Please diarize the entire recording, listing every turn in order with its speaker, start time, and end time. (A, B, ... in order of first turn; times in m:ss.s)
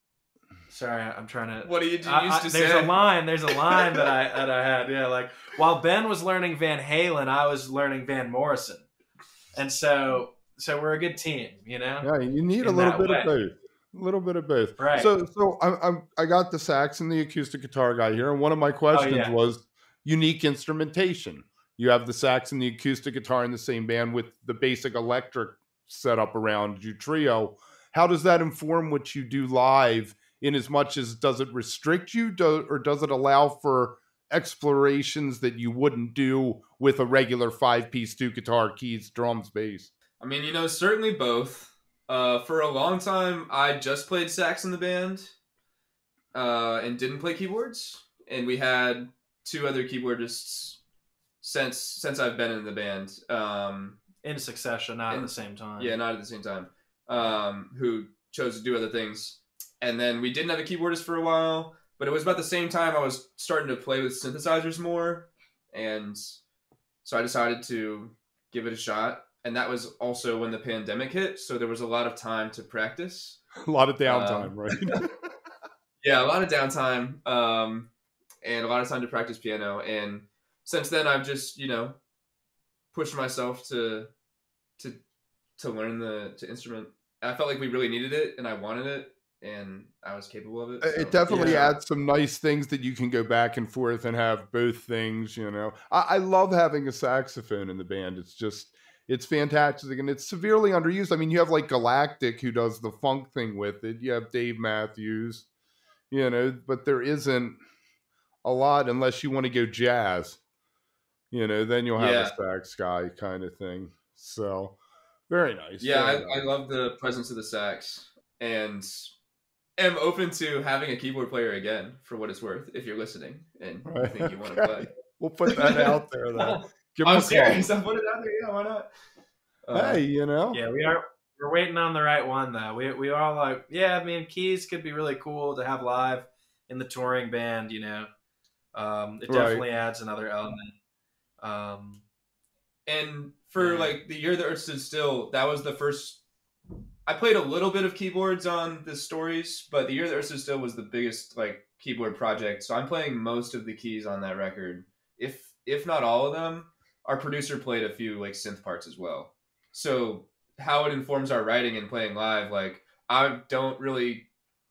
0:00.7-0:08.8 A
0:01.6-0:02.9 B
0:03.5-0:04.1 B
0:09.5-0:12.1 A
0:12.0-0:39.9 C
0:12.6-0:13.3 A
0:14.8-0:15.1 A
0:18.9-0:19.3 A
0:40.2-0:45.3 B
0:46.3-0:50.8 B
0:51.4-0:54.0 B
0:54.2-0:55.9 A
0:55.1-1:06.4 B
1:07.0-1:13.4 B
1:13.6-1:15.3 C
1:14.0-1:15.0 B
1:16.0-1:17.9 B
1:18.4-1:22.0 B
1:22.9-1:24.1 B
1:25.6-1:31.7 B
1:30.8-1:45.5 C
1:31.3-1:31.7 A
1:46.1-1:47.6 C
1:48.4-1:50.4 C
1:51.3-1:54.7 C
1:52.0-1:52.3 B
1:55.3-1:56.4 C
1:55.8-1:59.1 B
1:59.8-2:04.9 B
2:03.8-2:07.6 C
2:05.5-2:05.9 B
2:07.0-2:08.9 B
2:09.6-2:10.0 B
2:09.7-2:10.6 C
2:10.5-2:18.1 A
2:18.7-2:20.7 A
2:19.3-2:19.6 C
2:21.4-2:22.0 A
2:22.9-2:26.2 B
2:23.6-2:24.0 A
2:27.0-2:44.2 B